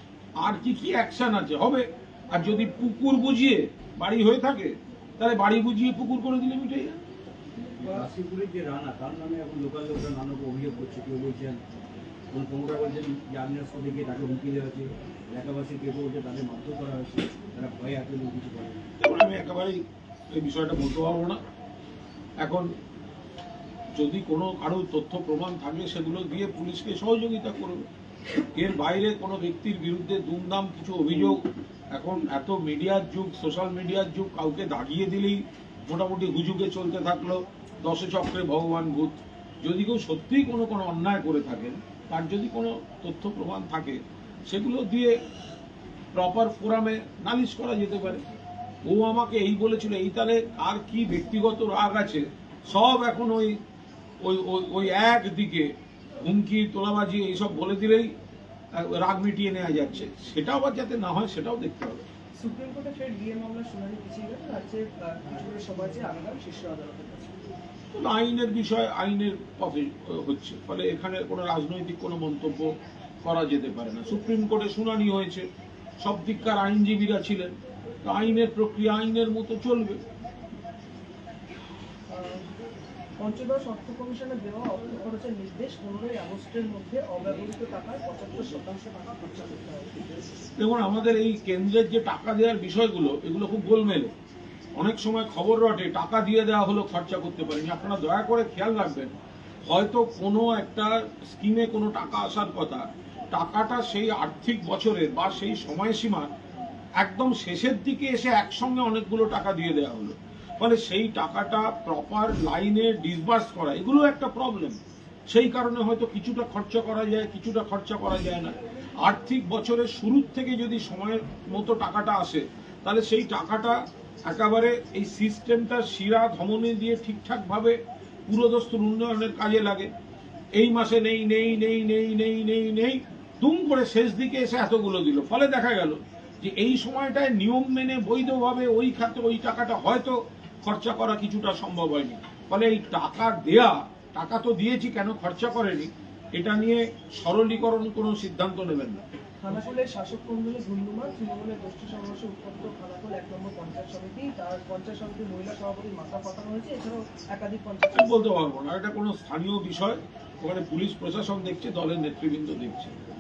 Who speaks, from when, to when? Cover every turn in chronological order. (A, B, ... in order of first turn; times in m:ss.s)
0:00.4-0:07.0 A
0:07.8-0:11.6 B
0:12.3-0:18.9 B
0:19.0-0:21.4 A
0:22.4-0:22.7 A
0:23.9-0:27.8 A
0:28.6-0:31.4 A
0:31.9-0:45.2 A
0:46.1-0:48.2 A
0:48.9-0:53.6 A
0:54.2-0:58.1 A
0:58.7-1:02.0 A
1:02.4-1:07.4 C
1:07.9-1:15.5 A
1:16.0-1:20.0 A
1:22.1-1:22.4 C
1:23.2-1:30.0 C
1:30.6-1:34.1 A
1:34.8-1:39.1 A
1:39.6-1:46.3 A
1:47.0-2:09.9 A
2:10.5-2:29.0 A
2:29.4-2:38.3 C
2:37.9-2:42.9 A